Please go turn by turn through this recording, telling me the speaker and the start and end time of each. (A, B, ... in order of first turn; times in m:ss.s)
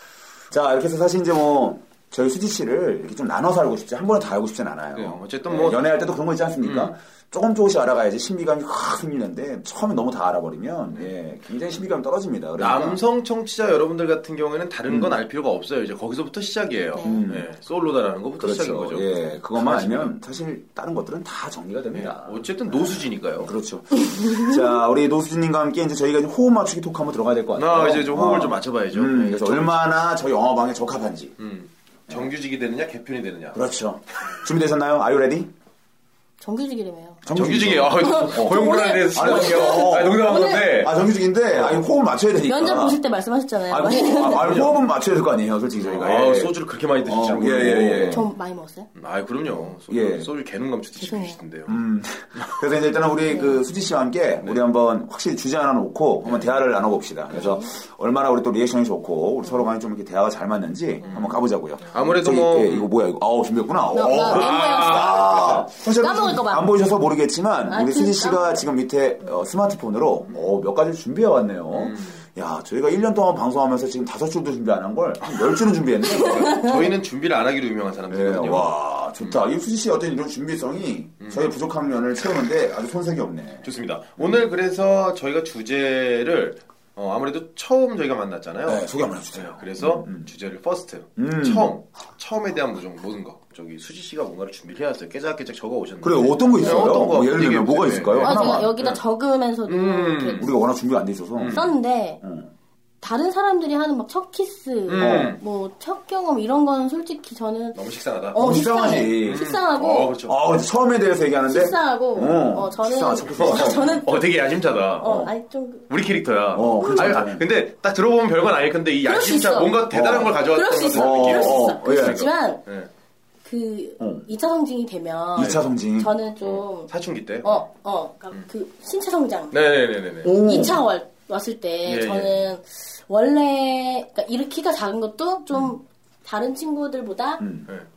0:00.5-0:13.0 A
0:04.9-0:05.9 B
0:06.6-0:06.9 B
0:12.6-0:20.2 B
0:16.9-0:17.2 C
0:17.0-0:17.5 A
0:18.4-0:31.4 A
0:21.9-0:23.5 B
0:27.6-0:29.8 B
0:31.4-0:33.6 B
0:33.5-0:35.5 A
0:36.4-0:37.2 C
0:37.2-0:43.0 A
0:37.3-0:41.0 B
0:38.0-0:40.8 C
0:41.5-0:41.8 B
0:42.4-0:44.6 C
0:43.7-0:48.2 A
0:44.3-0:44.8 B
0:45.7-0:48.2 B
0:48.1-0:48.9 C
0:48.9-0:51.8 B
0:49.9-0:50.3 A
0:51.0-0:51.4 C
0:51.7-1:16.7 A
0:53.3-0:53.6 C
0:56.2-0:56.5 B
0:57.4-0:57.6 C
1:01.0-1:02.9 B
1:03.9-1:06.7 C
1:04.1-1:05.7 B
1:07.7-1:08.6 C
1:11.7-1:12.2 B
1:16.1-1:16.8 C
1:16.2-1:19.4 B
1:18.1-1:23.7 A
1:21.2-1:21.5 B
1:23.6-1:39.0 B
1:28.6-1:30.3 A
1:31.2-1:31.7 A
1:36.0-1:38.7 A
1:36.6-1:37.0 C
1:38.2-1:40.5 C
1:39.7-1:40.4 B
1:40.4-1:42.5 A
1:41.4-1:41.7 B
1:41.5-1:42.2 C
1:43.0-1:47.8 C
1:44.9-1:45.4 B
1:45.0-1:45.3 A
1:47.7-1:48.4 B
1:48.3-1:50.1 C
1:48.4-1:49.5 A
1:49.2-1:50.4 B
1:50.2-1:54.0 A
1:51.5-1:54.3 C
1:53.3-1:55.3 B
1:55.0-1:55.9 C
1:55.0-1:55.3 A
1:55.9-2:02.9 B
1:56.5-1:57.4 A
1:56.8-1:57.2 C
1:59.0-2:02.6 C
1:59.9-2:00.4 A
2:00.9-2:02.2 A
2:03.4-2:06.9 C
2:04.0-2:04.2 A
2:05.3-2:06.1 A
2:06.4-2:07.6 B
2:07.4-2:09.6 C
2:09.5-2:10.3 B
2:10.2-2:10.8 A
2:10.3-2:17.4 C
2:11.8-2:12.5 B
2:17.4-2:17.7 A